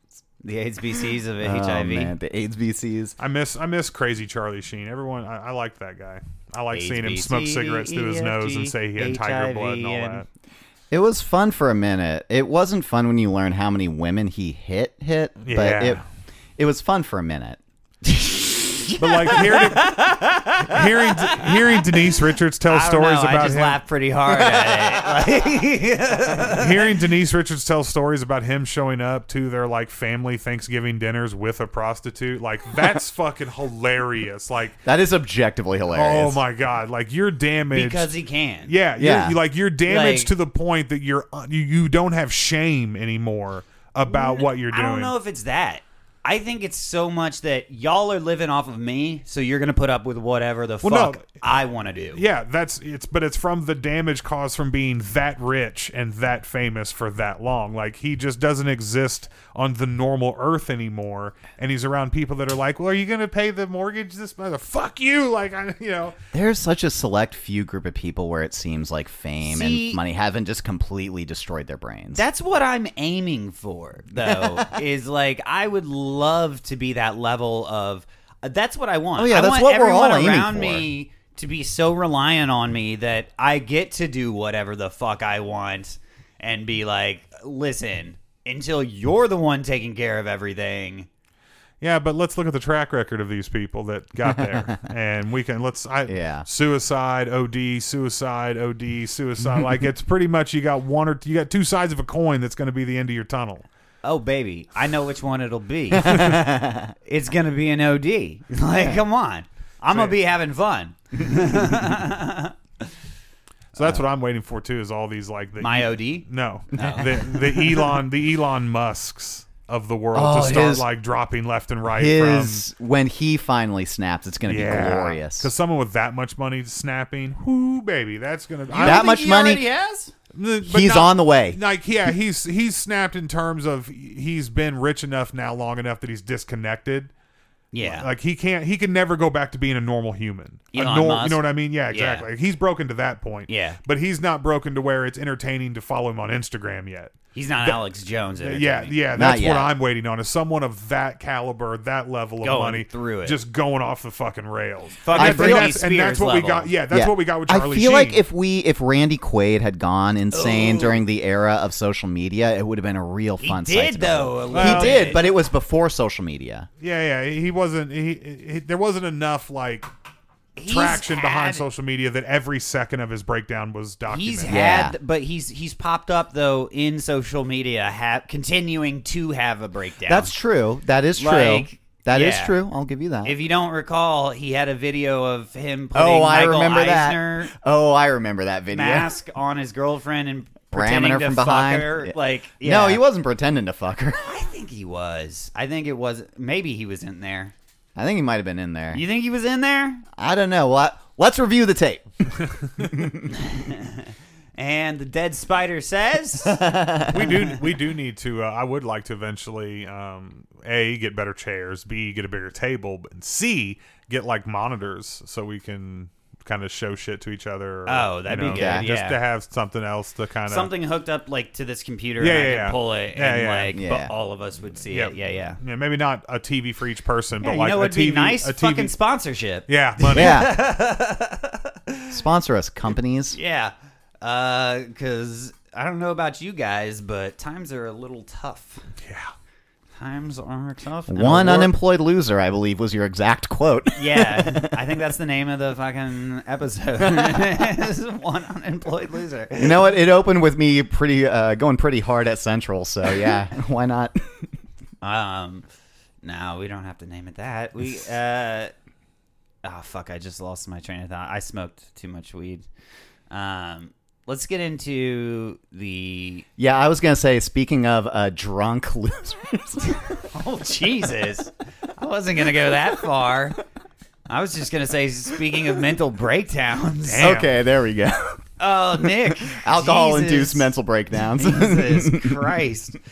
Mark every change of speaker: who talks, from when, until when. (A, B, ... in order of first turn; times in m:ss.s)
0:00.4-0:02.2 A
0:01.4-0:03.2 B
0:03.2-0:10.2 C
0:06.7-0:10.2 A
0:10.9-0:16.0 B
0:15.4-0:16.0 C
0:16.6-0:17.6 B
0:18.1-0:21.9 A
0:19.0-0:20.0 C
0:20.5-0:23.8 C
0:22.7-0:26.9 A
0:24.3-0:25.2 B
0:26.5-0:34.8 C
0:34.8-0:36.4 B
0:35.9-0:38.1 C
0:37.7-0:38.7 A
0:38.6-0:45.1 C
0:39.0-0:39.4 B
0:39.8-0:40.3 A
0:44.1-0:52.2 A
0:50.8-0:51.4 C
0:52.1-1:06.1 C
1:06.3-1:12.2 B
1:09.4-1:10.0 A
1:12.1-1:31.1 A
1:14.2-1:14.8 B
1:19.2-1:20.9 B
1:31.8-1:43.6 C
1:34.3-1:34.7 B
1:36.1-1:36.5 B
1:44.0-1:46.5 A
1:45.9-1:46.9 B
1:47.1-1:52.5 A
1:48.7-1:49.0 B
1:49.9-1:50.2 C
1:51.2-1:51.9 B
1:53.7-2:02.6 C
1:55.6-1:57.2 A
1:56.8-1:57.8 B
2:00.1-2:00.8 B
2:01.9-2:05.5 B
2:04.5-2:09.1 C
2:08.7-2:10.1 A
2:08.8-2:09.6 B
2:10.3-2:17.1 C
2:10.6-2:11.6 B
2:17.7-2:18.1 A
2:17.8-2:27.8 C
2:20.7-2:22.3 A
2:23.5-2:23.8 A
2:27.3-2:29.0 A
2:28.4-2:38.2 C
2:29.1-2:29.7 B
2:32.4-2:33.4 A
2:35.0-2:36.7 A
2:35.1-2:35.8 B
2:36.9-2:46.7 B
2:40.3-2:41.0 A
2:43.4-2:45.3 A
2:44.5-2:45.1 C
2:46.8-2:49.9 C
2:50.6-2:51.6 A
2:50.6-2:54.6 C
2:54.1-3:00.3 A
2:54.4-2:54.9 B
3:00.0-3:03.3 B
3:01.2-3:02.6 A
3:03.2-3:07.5 A
3:05.9-3:09.1 B
3:08.7-3:13.0 A
3:10.7-3:14.2 B
3:14.2-3:17.5 A
3:18.0-3:19.0 B
3:18.9-3:20.0 A
3:20.2-3:23.3 B
3:22.4-3:23.1 C
3:23.3-3:26.6 A
3:26.5-3:27.2 B
3:27.0-3:40.7 C
3:37.9-3:39.2 A
3:38.4-3:38.9 B
3:40.5-3:45.6 A
3:42.2-3:43.7 C
3:43.7-3:44.1 B
3:44.9-3:48.9 C
3:47.4-3:52.2 A
3:49.7-3:50.4 C
3:50.1-3:50.6 B
3:52.1-3:53.4 B
3:53.3-3:58.9 A
3:59.0-3:59.3 C
4:00.0-4:01.7 A
4:01.1-4:04.8 B
4:03.9-4:09.9 A
4:07.0-4:07.4 B
4:09.6-4:14.3 B
4:15.0-4:15.6 A
4:16.2-4:18.7 A
4:19.6-4:22.6 A
4:23.3-4:26.4 A
4:26.6-4:30.0 B
4:30.3-4:33.6 A
4:34.3-4:37.4 A
4:37.1-4:37.5 C
4:37.2-4:38.4 B
4:38.6-4:40.7 A
4:39.3-4:42.5 B
4:41.3-4:43.0 A